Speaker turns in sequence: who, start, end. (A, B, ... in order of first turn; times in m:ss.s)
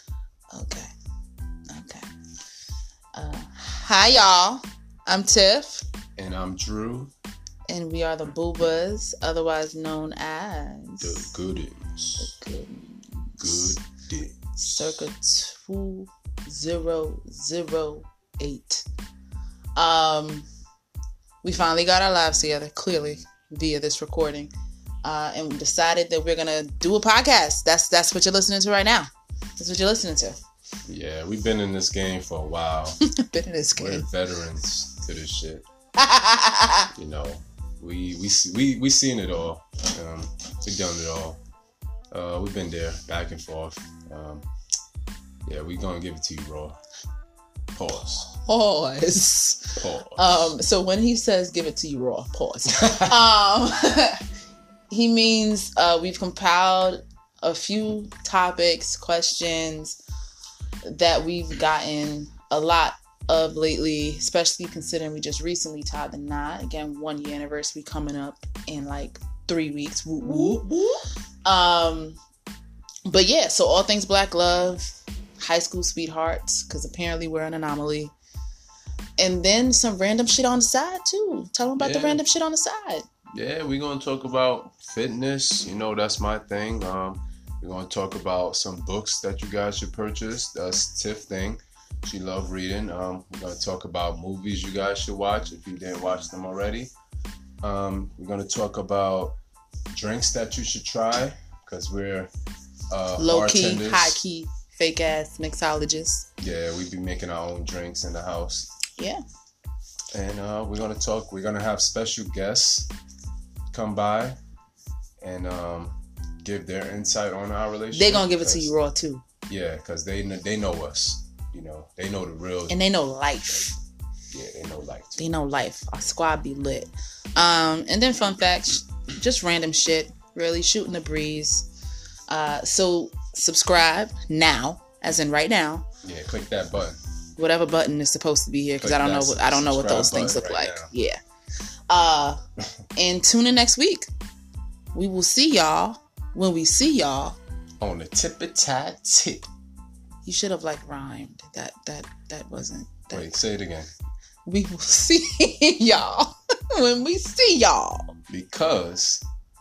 0:00.5-0:00.9 A
0:01.7-0:02.0 A
0:03.1-0:05.8 A
0:06.2-0:07.1 B
0:07.7-0:11.3 A
0:11.0-0:12.3 B
0:12.2-0:13.8 A
0:13.4-0:15.1 B
0:14.6-0:18.8 A
0:19.8-0:20.5 A
0:21.4-0:24.5 A
0:25.0-0:30.4 A
0:30.8-0:33.0 B
0:33.0-0:34.1 A
0:33.7-0:35.7 B
0:36.0-0:36.9 A
0:36.9-0:41.4 B
0:42.1-0:44.5 B
0:45.4-0:46.8 B
0:47.7-0:48.3 B
0:48.3-0:54.2 A
0:49.8-0:50.5 B
0:52.8-0:53.2 B
0:54.9-1:00.0 A
1:00.8-1:10.6 A
1:10.2-1:11.0 B
1:11.4-1:12.2 A
1:13.0-1:18.1 A
1:19.2-1:23.0 A
1:21.8-1:22.2 B
1:23.3-1:36.9 B
1:37.6-1:39.3 B
1:39.9-1:42.3 B
1:42.9-1:44.2 B
1:43.2-1:46.3 A
1:46.4-1:48.7 B
1:49.0-1:49.2 A
1:50.1-1:52.9 B
1:53.7-1:54.4 B
1:55.2-1:58.7 B
1:57.9-1:59.2 A
1:59.5-2:02.8 B
2:02.7-2:03.8 A
2:04.3-2:05.3 B
2:05.2-2:11.7 A
2:12.3-2:15.8 A
2:16.0-2:17.0 B
2:17.4-2:21.2 A
2:18.8-2:20.9 B
2:21.9-2:22.4 A
2:23.0-2:24.1 A
2:24.9-2:27.4 A
2:27.8-2:29.5 B
2:30.2-2:33.3 A
2:33.1-2:33.9 B
2:34.4-2:38.1 A
2:38.3-2:39.2 B